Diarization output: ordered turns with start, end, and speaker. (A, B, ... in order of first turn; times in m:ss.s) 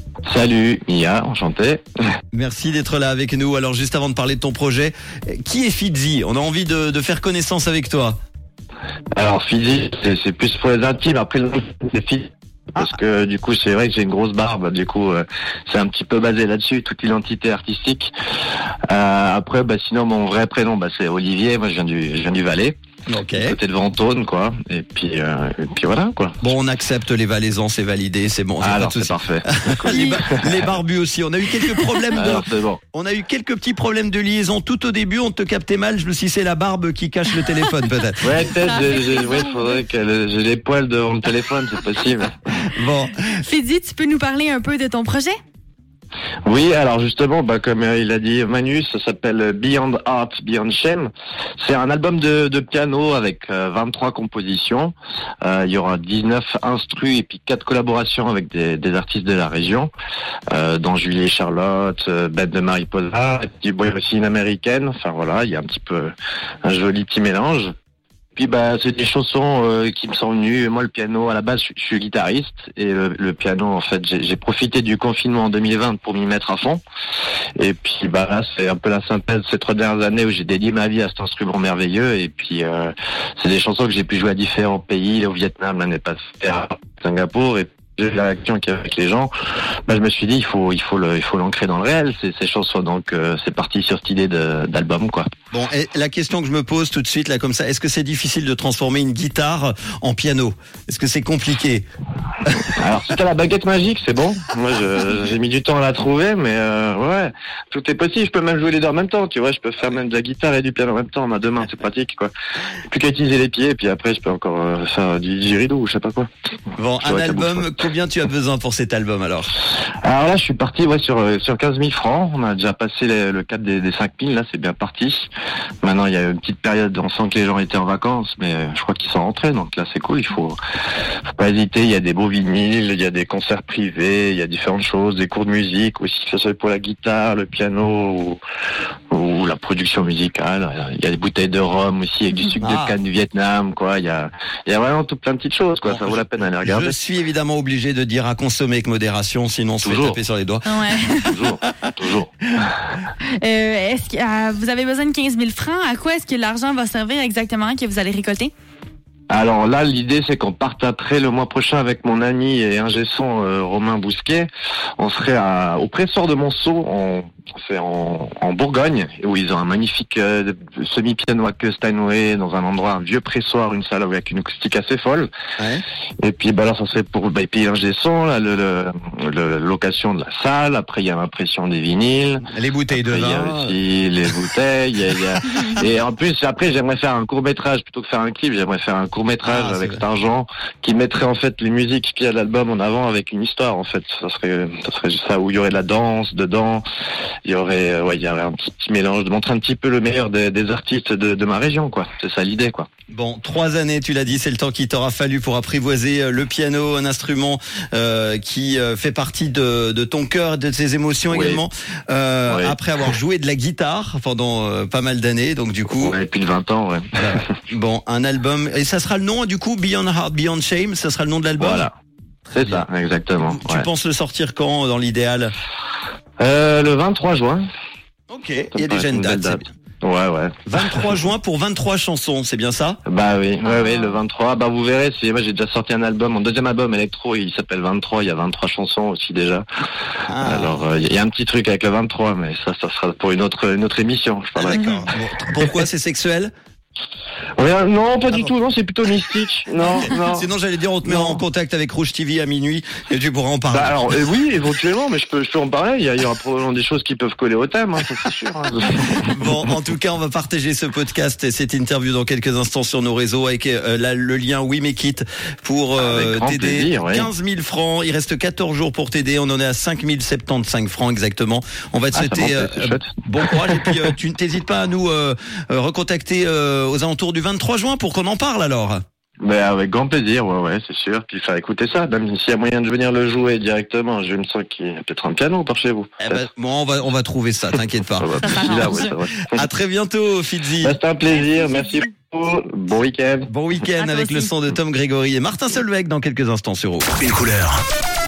0:00.3-0:01.8 A
0:02.3-0:08.2 B
0:09.2-0:18.1 A
0:18.9-0:22.8 A
0:23.1-0:23.6 B
0:23.3-0:26.5 A
0:26.4-0:38.6 B
0:28.6-0:30.7 A
0:32.1-0:32.8 A
0:38.2-0:42.4 A
0:38.5-0:39.8 C
0:42.7-0:43.3 B
0:43.3-0:45.4 C
0:46.4-0:51.1 A
0:51.6-0:59.9 A
1:00.5-1:06.1 A
1:06.6-1:07.7 A
1:08.4-1:16.8 A
1:17.6-1:29.3 A
1:29.9-1:35.3 A
1:35.5-1:41.9 B
1:42.4-1:42.7 B
1:42.8-1:52.3 A
1:52.8-1:56.3 A
1:56.8-1:59.5 B
1:57.0-1:57.7 A
2:00.0-2:05.3 A
2:05.8-2:10.6 A
2:11.4-2:18.4 A
2:19.1-2:27.0 A
2:22.6-2:23.0 B
2:25.9-2:31.1 B
2:29.8-2:30.2 A
2:30.7-2:31.4 C
2:31.2-2:32.7 A
2:33.4-2:38.5 C
2:39.3-2:44.5 A
2:45.0-2:55.3 A
2:55.6-2:55.8 B
2:56.2-3:16.8 A
3:02.4-3:03.8 B
3:09.4-3:10.0 B
3:17.4-3:22.9 A
3:23.1-3:36.2 B
3:31.3-3:31.6 A
3:32.5-3:32.8 A
3:36.0-3:37.1 A
3:37.2-3:41.9 B
3:41.6-3:41.9 A
3:42.5-3:43.9 A
3:42.6-3:42.8 B
3:43.4-3:45.5 B
3:46.4-3:47.6 A
3:48.3-3:49.7 B
3:48.7-3:51.1 A
3:50.7-3:53.0 B
3:53.1-3:59.7 A
4:00.3-4:00.8 B
4:00.4-4:04.8 A
4:04.6-4:06.5 B
4:04.7-4:05.1 C
4:07.6-4:10.5 A
4:09.8-4:14.3 B
4:11.0-4:11.4 A
4:13.7-4:19.1 A
4:18.9-4:39.0 B
4:26.0-4:27.3 A
4:32.1-4:33.9 A
4:39.4-4:46.4 A
4:46.2-4:51.0 B
4:48.2-4:49.6 A
4:48.4-4:49.1 C
4:50.8-4:53.5 A
4:51.4-4:52.0 C
4:53.5-4:57.7 B
4:54.0-4:54.5 C